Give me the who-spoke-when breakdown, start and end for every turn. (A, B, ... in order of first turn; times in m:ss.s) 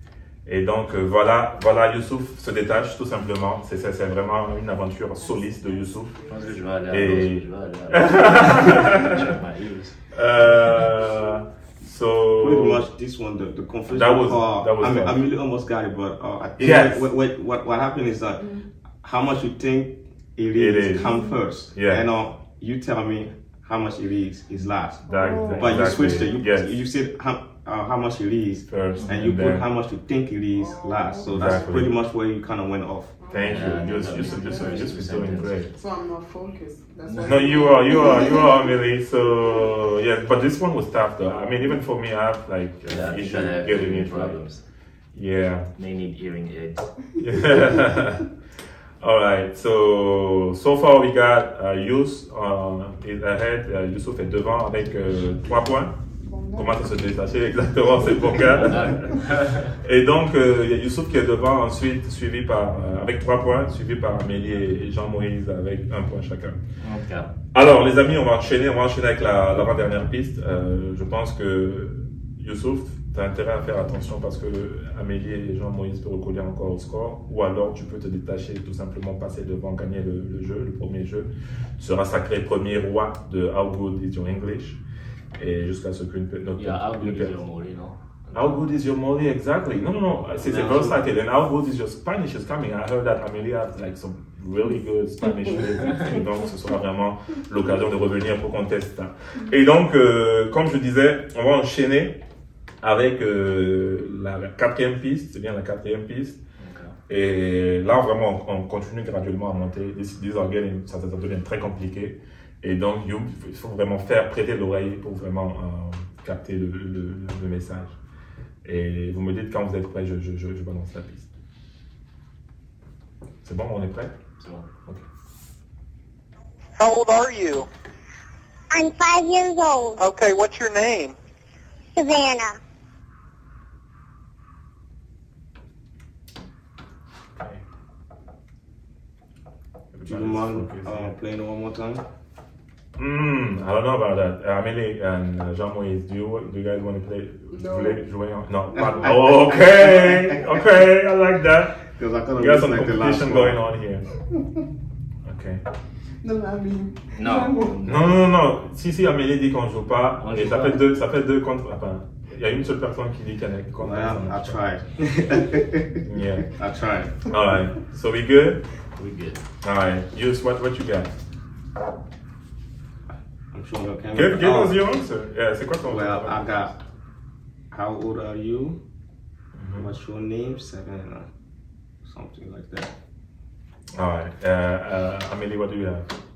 0:00.4-0:06.1 A
0:05.2-0:07.0 B
0:06.3-0:10.0 C
0:06.9-0:09.2 A
0:10.1-0:12.8 A
0:12.4-0:33.2 D
0:13.9-0:15.2 A
0:16.6-0:17.1 A
0:18.4-0:18.7 B
0:20.5-0:22.1 A
0:21.0-0:21.4 B
0:25.1-0:26.3 B
0:25.1-0:26.8 A
0:28.7-0:29.7 A
0:30.6-0:31.8 B
0:31.3-0:31.9 A
0:33.2-0:35.0 B
0:33.3-0:35.7 A
0:33.5-0:35.7 C
0:35.7-0:38.6 B
0:37.2-0:44.4 A
0:42.8-0:44.6 C
0:45.1-0:45.7 A
0:45.8-0:47.0 C
0:47.2-0:48.3 A
0:49.0-0:56.0 A
0:56.2-0:57.0 B
0:56.5-1:06.6 A
0:58.5-0:59.8 C
1:06.8-1:07.3 C
1:07.5-1:24.8 A
1:25.4-1:27.4 A
1:26.6-1:28.7 C
1:28.3-1:42.2 A
1:30.5-1:31.0 C
1:42.8-1:46.4 A
1:46.6-1:47.0 C
1:47.1-1:58.0 A
1:58.6-2:01.3 A
2:03.4-2:04.2 A
2:04.4-2:04.7 C
2:06.8-2:07.7 E
2:08.7-2:10.0 F
2:10.0-2:11.2 E
2:12.0-2:12.6 F
2:17.4-2:17.6 A
2:19.9-2:21.1 A
2:20.0-2:22.0 D
2:23.0-2:34.1 A
2:27.5-2:28.0 B
2:28.9-2:30.1 D
2:31.9-2:33.6 D
2:35.2-2:35.6 A
2:36.2-2:37.8 B
2:37.2-2:38.2 C
2:37.8-2:44.6 A
2:40.2-2:40.8 C
2:43.8-2:47.2 D
2:46.0-2:46.5 A
2:47.3-2:48.6 A
2:49.0-2:49.4 C
2:49.6-2:51.1 A
2:53.5-2:54.8 D
2:54.1-2:56.8 A
2:55.8-2:56.7 D
2:57.7-2:58.8 D
2:59.6-2:59.9 A
2:59.7-3:01.3 D
3:02.0-3:02.9 D
3:03.9-3:06.1 A